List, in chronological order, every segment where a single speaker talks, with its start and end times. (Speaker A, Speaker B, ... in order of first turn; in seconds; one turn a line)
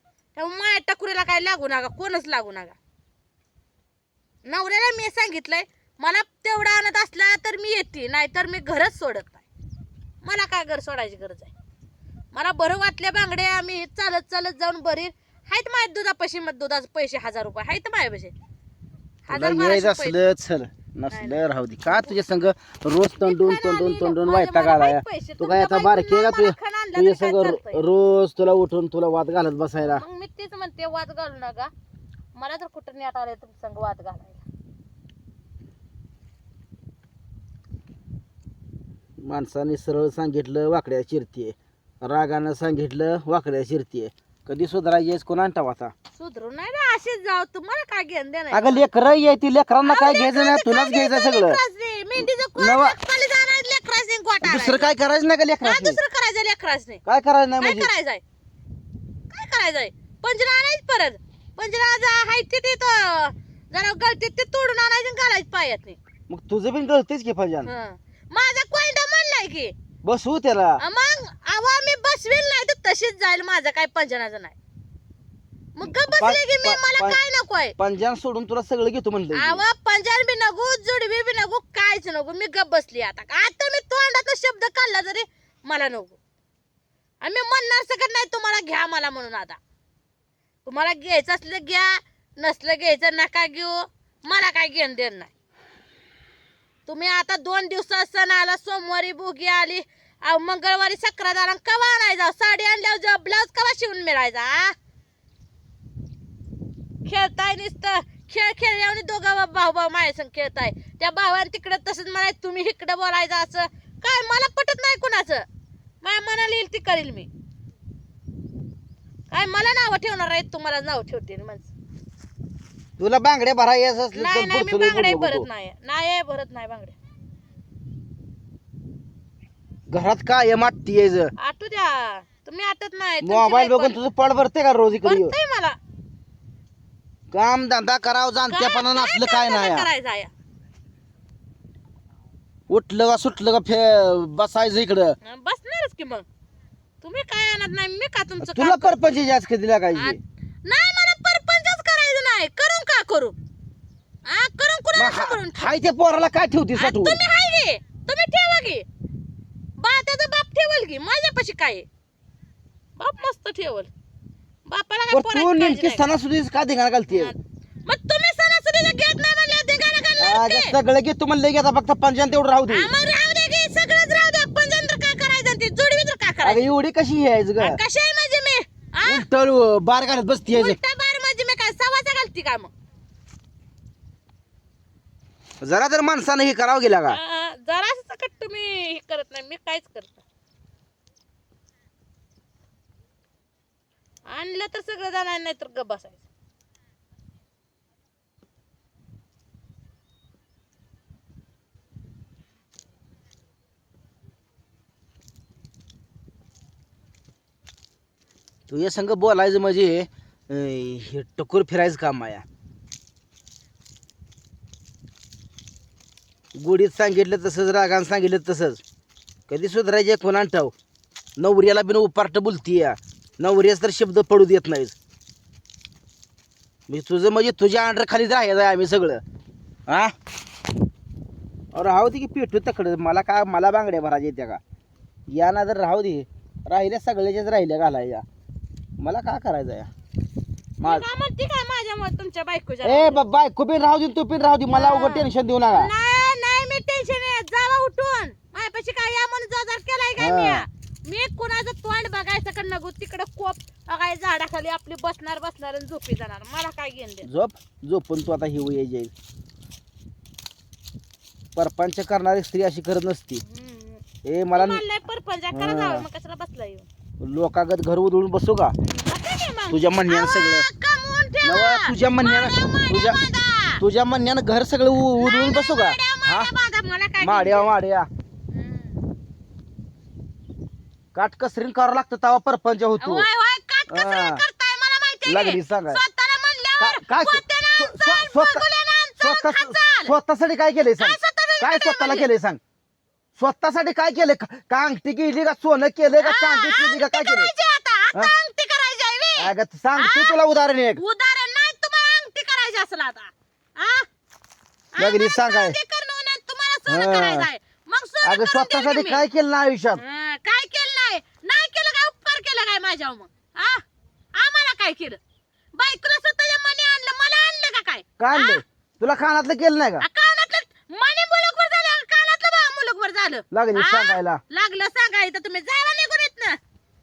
Speaker A: 0.4-2.8
Speaker A: 4.5-9.4
Speaker A: 10.2-11.5
Speaker A: 12.3-18.3
Speaker A: 19.3-20.2
Speaker B: 19.3-30.0
Speaker A: 21.1-22.1
Speaker A: 23.2-27.8
Speaker A: 29.8-31.7
Speaker A: 32.3-34.5
Speaker B: 39.2-45.9
Speaker A: 46.2-48.9
Speaker B: 48.5-51.6
Speaker A: 49.8-54.9
Speaker B: 52.6-53.0
Speaker B: 54.4-56.0
Speaker A: 55.6-57.0
Speaker B: 57.0-57.9
Speaker A: 57.6-58.2
Speaker A: 59.3-66.0
Speaker B: 66.3-67.7
Speaker A: 67.6-69.7
Speaker B: 70.0-70.8
Speaker A: 70.8-74.5
Speaker A: 75.8-77.8
Speaker B: 76.2-77.2
Speaker B: 77.8-79.6
Speaker A: 79.3-86.2
Speaker A: 87.2-89.6
Speaker A: 90.7-95.3
Speaker A: 96.9-104.8
Speaker A: 107.0-115.5
Speaker A: 116.0-117.3
Speaker A: 119.3-121.7
Speaker B: 123.0-125.5
Speaker A: 124.1-127.0
Speaker B: 129.9-131.3
Speaker A: 131.4-134.0
Speaker B: 133.2-135.3
Speaker A: 134.9-135.8
Speaker B: 137.3-139.9
Speaker A: 138.5-140.3
Speaker B: 142.7-145.2
Speaker A: 145.2-146.3
Speaker A: 147.0-149.0
Speaker B: 148.4-150.2
Speaker A: 149.9-153.3
Speaker A: 154.2-155.7
Speaker B: 154.9-157.2
Speaker A: 156.7-158.8
Speaker A: 159.8-161.9
Speaker A: 163.0-163.9
Speaker A: 164.7-166.1
Speaker B: 165.1-167.3
Speaker A: 167.1-170.8
Speaker B: 170.2-172.9
Speaker A: 172.7-176.7
Speaker B: 176.4-177.8
Speaker A: 177.6-179.3
Speaker B: 179.0-180.8
Speaker A: 180.5-182.7
Speaker B: 185.6-187.2
Speaker A: 187.1-190.2
Speaker A: 194.3-196.2
Speaker B: 208.7-212.4
Speaker B: 216.6-218.8
Speaker B: 219.5-220.7
Speaker B: 221.4-224.9
Speaker B: 226.9-229.2
Speaker B: 229.9-230.1
Speaker B: 231.7-234.6
Speaker B: 235.3-238.2
Speaker B: 239.0-239.9
Speaker A: 240.8-243.3
Speaker B: 242.8-245.9
Speaker A: 244.7-257.3
Speaker B: 250.2-250.7
Speaker B: 257.2-259.1
Speaker B: 261.6-263.4
Speaker A: 263.4-266.9
Speaker B: 264.2-264.8
Speaker B: 265.5-266.1
Speaker B: 267.2-268.8
Speaker A: 268.8-273.8
Speaker B: 269.7-270.7
Speaker B: 271.4-273.2
Speaker B: 273.8-276.5
Speaker A: 275.1-277.7
Speaker B: 277.2-278.1
Speaker A: 278.5-279.1
Speaker B: 281.1-283.3
Speaker A: 283.0-290.1
Speaker B: 283.9-284.4
Speaker B: 285.2-286.0
Speaker B: 286.8-288.6
Speaker B: 289.2-292.6
Speaker A: 291.0-292.3
Speaker B: 293.4-297.5
Speaker A: 296.2-300.4
Speaker B: 299.4-301.0
Speaker A: 301.0-304.1
Speaker A: 304.9-309.2
Speaker B: 305.0-305.8
Speaker B: 306.9-307.5
Speaker B: 308.2-310.0
Speaker A: 309.9-315.2
Speaker A: 315.8-318.6
Speaker B: 318.2-320.1
Speaker A: 320.0-326.6
Speaker B: 323.5-324.4